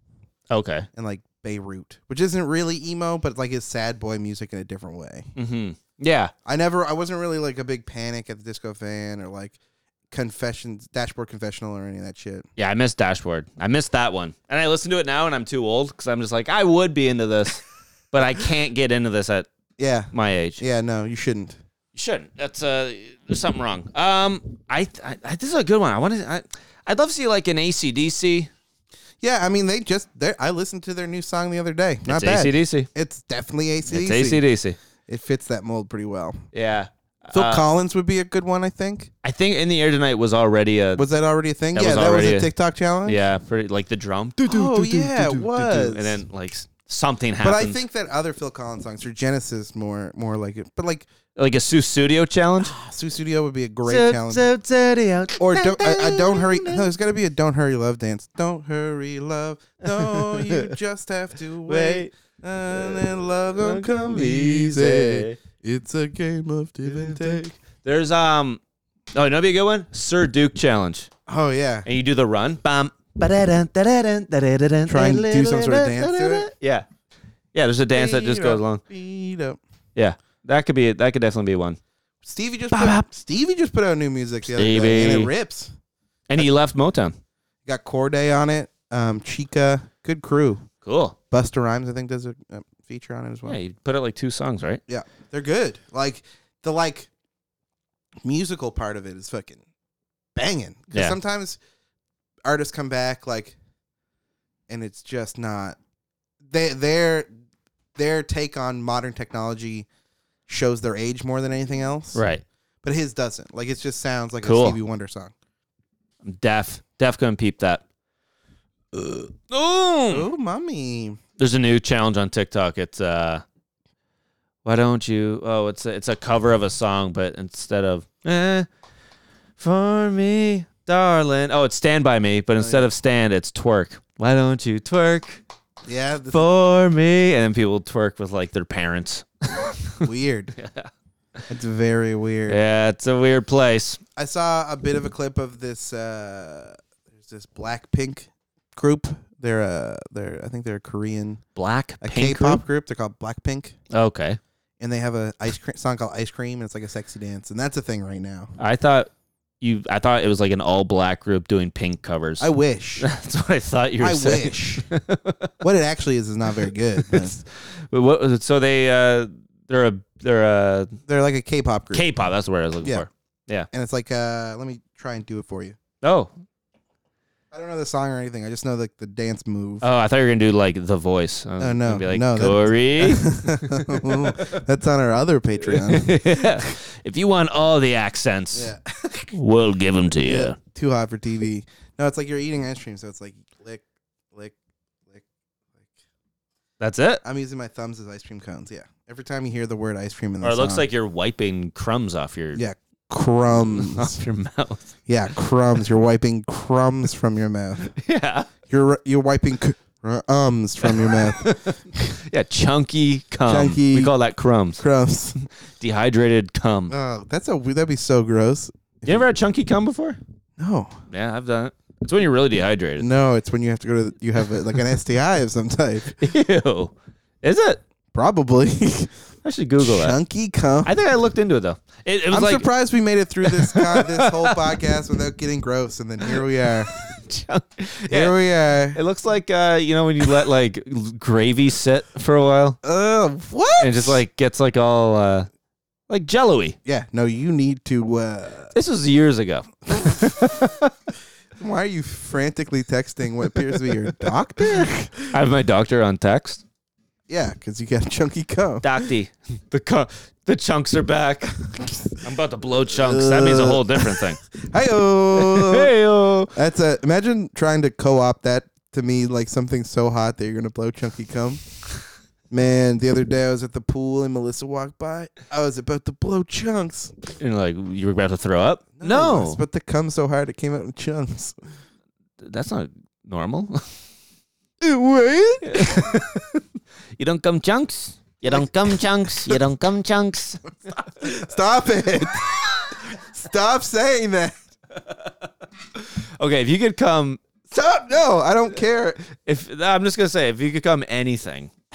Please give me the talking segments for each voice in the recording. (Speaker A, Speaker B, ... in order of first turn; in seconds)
Speaker A: 0.5-0.9, 5.3-6.3, 12.6-19.5, 20.1-20.6, 21.9-28.5, 32.1-32.9, 33.9-34.8, 36.5-37.6, 39.2-41.0, 41.7-42.5, 43.0-47.8, 51.4-52.7, 53.9-56.9, 59.8-60.8, 61.6-62.1, 62.7-63.0, 63.6-65.4, 66.8-68.6, 69.1-71.1, 71.8-76.8, 77.5-78.8, 80.0-81.8, 82.7-83.1, 84.5-85.3, 86.3-87.2, 90.8-91.2, 93.5-94.8, 112.1-112.4, 114.4-114.8, 116.2-117.8, 119.5-120.3, 121.4-123.4, 124.6-128.7, 129.6-135.4, 136.3-140.9, 142.5-144.0, 151.6-152.6, 153.9-154.4, 158.6-159.1, 159.6-162.5, 163.0-165.5, 166.9-170.9, 171.9-173.7, 176.0-176.3, 179.8-184.6, 185.6-188.7, 189.3-190.6, 196.8-197.2, 200.4-202.6, 203.5-204.9, 207.8-208.5, 210.8-214.8, 215.4-216.9, 219.0-220.2, 221.1-223.1, 226.2-227.8, 229.4-230.2, 230.8-232.7, 233.4-234.6, 236.3-238.3, 238.9-242.8, 243.8-245.5, 246.1-246.8, 248.7-250.9, 255.3-256.6, 258.8-261.6, 262.2-264.4, 265.3-266.5, 277.4-279.6, 282.4-283.8, 285.6-286.6, 287.2-290.6, 295.9-297.4, 299.2-301.7
Speaker B: 0.9-5.3, 6.5-9.6, 10.1-12.4, 19.8-21.6, 29.2-34.4, 35.1-36.4, 37.3-39.1, 41.0-43.2, 44.4-46.2, 47.4-51.1, 52.6-54.5, 55.4-67.5, 71.3-71.8, 74.9-76.5, 77.9-79.6, 82.2-85.7, 87.6-90.7, 91.3-93.6, 94.9-97.1, 98.2-99.6, 100.3-101.6, 102.4-103.5, 104.7-105.8, 106.5-107.3, 108.0-109.9, 110.5-112.2, 112.8-115.3, 120.1-121.2, 132.6-132.9, 135.8-136.4, 140.0-140.5, 141.5-142.6, 144.2-151.4, 152.0-153.7, 154.8-158.5, 162.4-163.1, 164.0-164.9, 165.6-167.4, 171.1-172.1, 173.7-175.8, 177.5-179.8, 181.6-186.7, 188.5-189.3, 190.2-194.5, 197.2-200.9, 202.5-204.2, 205.1-207.9, 208.7-212.0, 213.4-214.1, 214.8-215.4, 216.9-219.2, 220.6-221.0, 223.0-226.2, 228.1-229.1, 229.8-230.9, 232.3-236.9, 238.1-239.0, 242.8-244.2, 246.8-248.7, 249.9-250.7, 251.6-255.3, 257.3-259.0, 261.7-262.0, 262.9-265.9, 266.5-271.6, 272.5-277.1, 279.0-281.5, 284.8-286.4, 290.9-294.6, 297.7-299.2